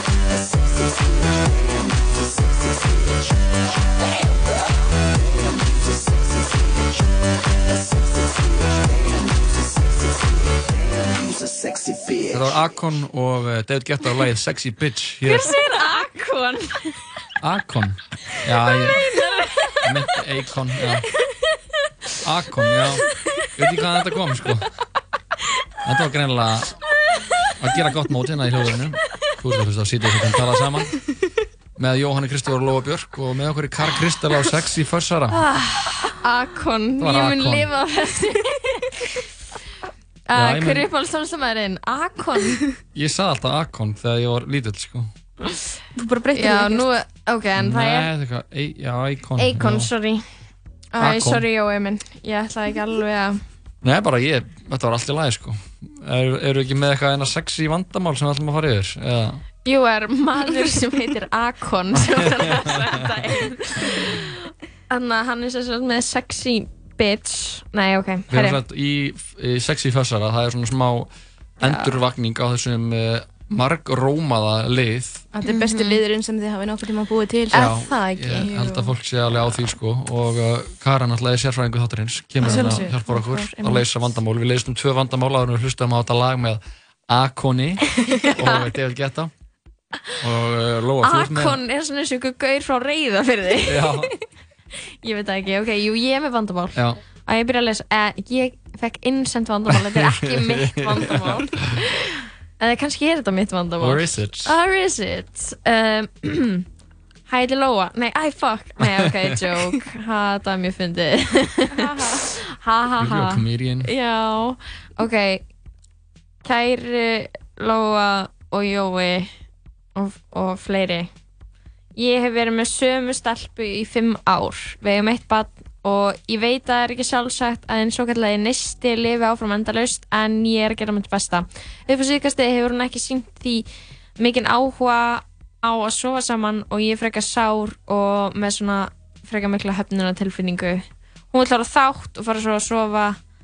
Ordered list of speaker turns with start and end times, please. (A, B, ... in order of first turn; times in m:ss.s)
0:12.3-0:15.5 A
0:15.2-0:16.9 B
0:17.4-0:19.1 A
0:19.8-0:21.0 A
0:22.2-0:23.0 A
0:23.6-0:24.6 A
0:25.8-0:26.7 A
0:27.6-0:30.9 A
0:31.8-0:35.4 A
0:35.4-0:38.5 B
0:37.0-0:37.7 A
0:40.3-0:42.6 B
0:40.3-0:40.9 A
0:42.9-0:45.1 A
0:46.0-0:46.9 C
0:46.3-0:48.1 B
0:47.6-0:49.9 A
0:49.4-0:50.2 B
0:50.9-0:53.4 B
0:51.0-0:51.4 A
0:53.8-0:59.4 A
0:59.6-1:04.3 B
1:02.1-1:02.9 A
1:04.9-1:08.6 B
1:08.3-1:11.1 A
1:11.6-1:15.2 A
1:11.6-1:11.9 B
1:15.3-1:18.8 C
1:15.4-1:16.0 B
1:17.5-1:29.3 A
1:17.5-1:18.6 B
1:22.4-1:23.0 C
1:22.4-1:23.8 B
1:28.1-1:28.6 B
1:30.2-1:31.6 A
1:31.0-1:34.0 B
1:33.6-1:34.1 A
1:35.0-1:41.8 B
1:36.7-1:37.0 A
1:39.7-1:41.7 A
1:42.6-1:46.6 B
1:43.8-1:44.5 A
1:47.3-1:55.4 B
1:48.8-1:49.1 A
1:51.7-1:52.2 C
1:53.0-1:53.9 A
1:56.4-1:59.3 B
2:00.0-2:01.1 B
2:02.0-2:13.7 B
2:14.2-2:23.2 B